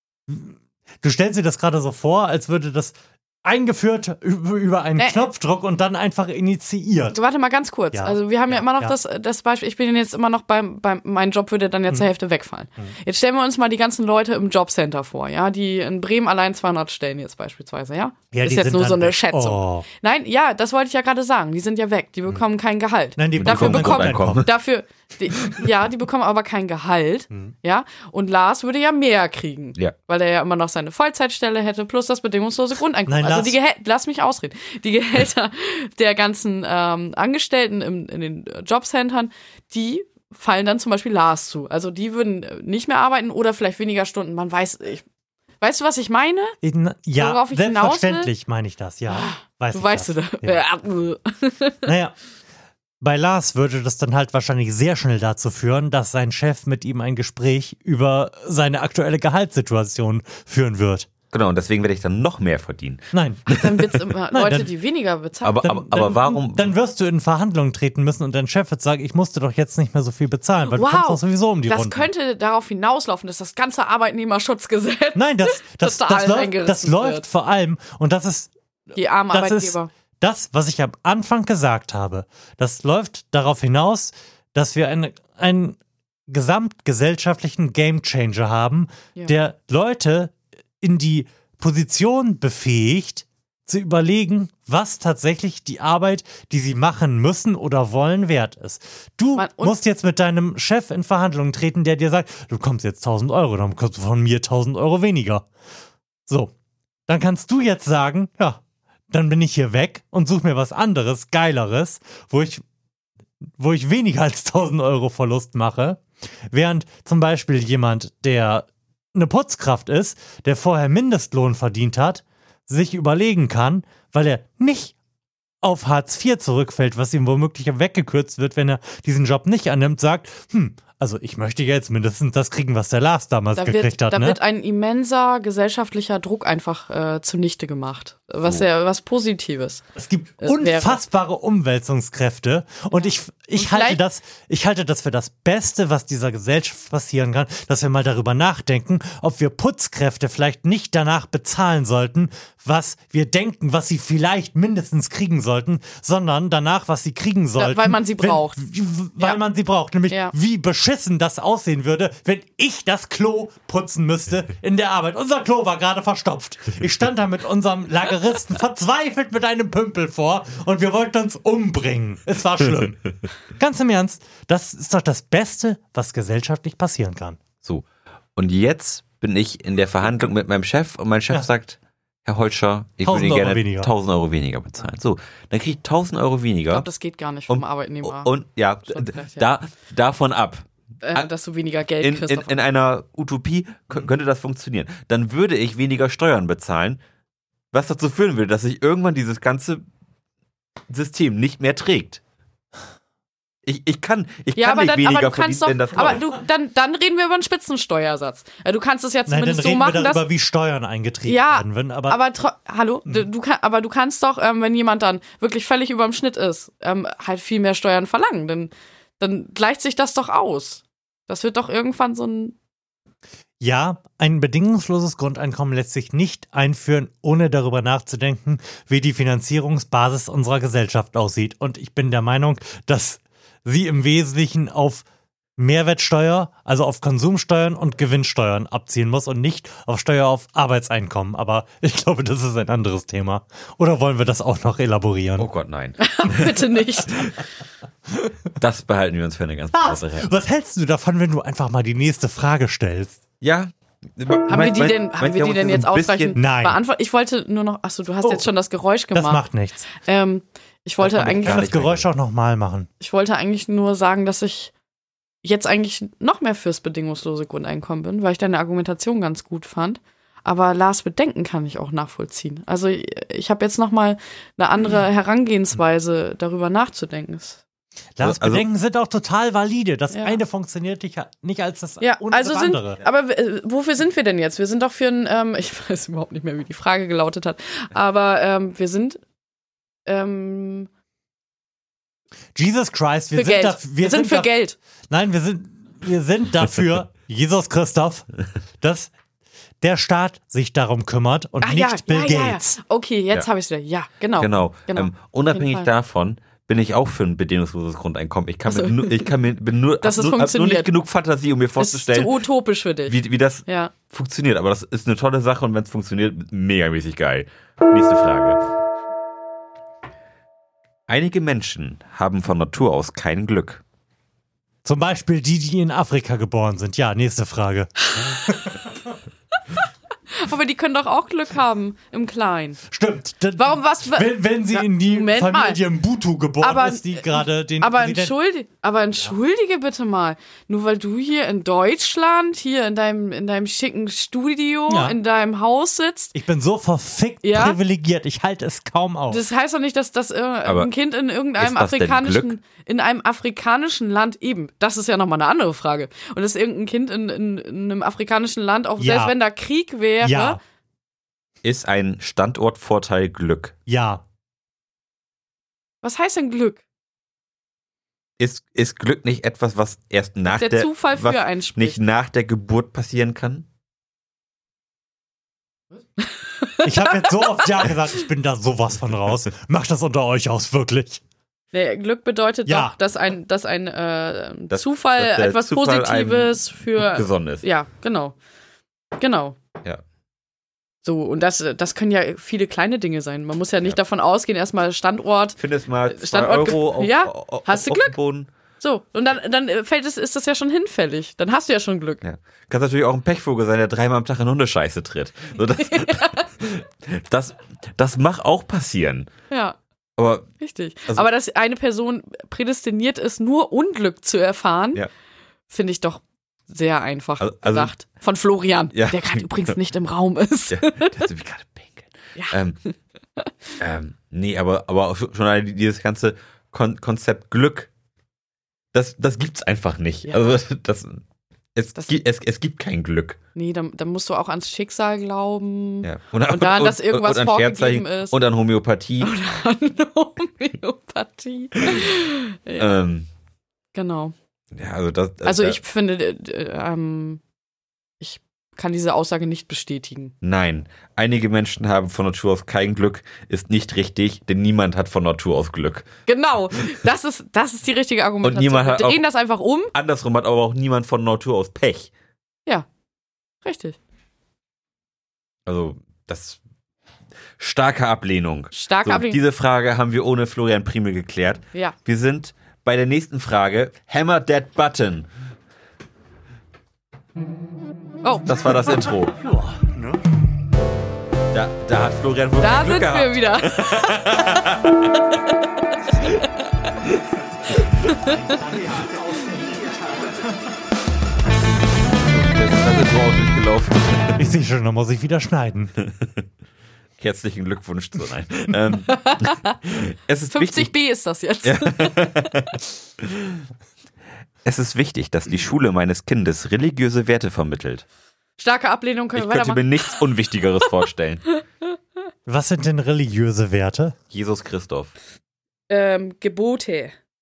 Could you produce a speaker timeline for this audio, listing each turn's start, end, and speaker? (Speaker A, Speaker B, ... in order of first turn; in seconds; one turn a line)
Speaker A: 0.3-7.2
Speaker B: 5.0-5.3
Speaker B: 7.1-45.0
Speaker A: 7.9-8.9
Speaker A: 18.3-19.9
Speaker A: 23.2-24.5
Speaker C: 23.4-24.5
Speaker A: 33.1-33.6
Speaker B: 45.6-46.6
Speaker A: 46.6-50.6
Speaker B: 47.2-48.3
Speaker B: 49.1-51.9
Speaker A: 51.9-52.1
Speaker A: 53.0-61.1
Speaker C: 61.3-63.9
Speaker A: 63.1-63.6
Speaker B: 63.5-66.2
Speaker A: 64.3-64.7
Speaker C: 65.4-66.7
Speaker A: 65.9-72.1
Speaker B: 70.7-77.2
Speaker A: 75.2-78.5
Speaker B: 79.0-79.9
Speaker A: 79.3-105.5
Speaker B: 99.4-99.8
Speaker A: 106.3-106.5
Speaker A: 107.1-108.6
Speaker A: 109.1-112.6
Speaker A: 113.6-125.0
Speaker A: 125.6-134.4
Speaker B: 133.6-139.8
Speaker A: 140.0-177.4
Speaker B: 140.4-141.0
Speaker B: 142.9-144.0
Speaker B: 157.6-158.6
Speaker B: 160.1-160.3
Speaker C: 177.6-186.9
Speaker A: 183.0-183.9
Speaker B: 186.7-188.3
Speaker C: 187.5-191.3
Speaker B: 188.9-189.5
Speaker B: 191.0-192.6
Speaker C: 192.0-197.0
Speaker C: 197.7-199.8
Speaker C: 200.9-202.2
Speaker C: 203.7-206.2
Speaker B: 204.6-210.2
Speaker A: 209.3-212.2
Speaker B: 211.3-222.6
Speaker A: 223.6-235.1
Speaker A: 235.6-245.5
Speaker C: 245.4-247.3
Speaker B: 246.0-247.3
Speaker C: 248.6-250.3
Speaker A: 249.7-253.2
Speaker C: 253.4-256.4
Speaker B: 254.5-261.7
Speaker A: 256.4-256.8
Speaker A: 259.1-259.9
Speaker C: 261.0-262.1
Speaker A: 261.1-262.9
Speaker B: 263.0-264.7
Speaker B: 265.4-277.6
Speaker A: 278.2-283.0
Speaker C: 278.2-278.6
Speaker B: 280.1-280.4
Speaker B: 282.0-289.2
Speaker B: 290.1-290.9
Speaker A: 292.6-294.5
Speaker B: 293.3-294.8
Speaker A: 295.1-298.3
Speaker A: 298.8-299.1
Speaker A: 299.8-302.8
Speaker B: 301.6-305.9
Speaker C: 304.4-312.4
Speaker B: 308.7-309.3
Speaker B: 310.0-310.9
Speaker B: 311.8-313.9
Speaker C: 313.1-318.6
Speaker C: 321.1-323.8
Speaker A: 324.9-328.9
Speaker B: 328.1-328.4
Speaker B: 330.3-332.8
Speaker A: 332.9-338.3
Speaker B: 333.6-335.8
Speaker B: 336.6-346.4
Speaker A: 344.9-345.2
Speaker A: 346.3-349.4
Speaker B: 347.4-347.8
Speaker B: 349.3-360.6
Speaker C: 350.6-350.9
Speaker C: 351.6-352.5
Speaker A: 359.0-359.3
Speaker A: 360.2-360.6
Speaker C: 361.6-363.7
Speaker A: 363.9-364.2
Speaker B: 366.0-366.8
Speaker C: 368.4-373.7
Speaker B: 370.5-372.0
Speaker B: 376.2-377.6
Speaker A: 376.8-381.2
Speaker B: 381.7-388.4
Speaker A: 382.7-382.9
Speaker C: 384.7-387.6
Speaker B: 389.2-389.6
Speaker B: 391.0-398.2
Speaker C: 395.6-398.5
Speaker B: 398.8-402.2
Speaker C: 402.2-409.3
Speaker B: 405.8-406.5
Speaker B: 409.5-409.8
Speaker C: 410.2-410.5
Speaker B: 410.6-415.0
Speaker B: 415.7-421.2
Speaker C: 417.4-417.9
Speaker C: 418.9-419.8
Speaker C: 420.7-422.8
Speaker B: 422.4-423.7
Speaker C: 423.8-427.9
Speaker C: 428.9-431.2
Speaker C: 431.8-433.4
Speaker B: 433.6-438.4
Speaker C: 436.0-439.3
Speaker B: 439.2-442.9
Speaker C: 442.8-443.3
Speaker B: 443.9-444.3
Speaker C: 444.7-445.8
Speaker B: 445.4-447.4
Speaker B: 448.2-450.3
Speaker C: 450.4-456.1
Speaker B: 456.3-459.9
Speaker C: 458.4-459.2
Speaker C: 459.9-462.1
Speaker B: 463.6-464.0
Speaker C: 465.7-466.6
Speaker C: 467.6-475.3
Speaker B: 468.7-469.4
Speaker C: 478.5-479.4
Speaker A: 479.4-480.2
Speaker C: 481.5-485.1
Speaker B: 482.6-484.6
Speaker B: 488.1-488.6
Speaker A: 488.2-490.4
Speaker C: 492.3-494.5
Speaker A: 494.4-495.9
Speaker C: 496.0-496.4
Speaker C: 497.2-500.9
Speaker B: 499.1-499.8
Speaker B: 500.5-502.5
Speaker C: 501.6-503.6
Speaker C: 504.6-508.0
Speaker B: 508.6-510.3
Speaker C: 509.4-511.4
Speaker A: 512.5-514.2
Speaker C: 514.3-515.1
Speaker B: 515.9-517.1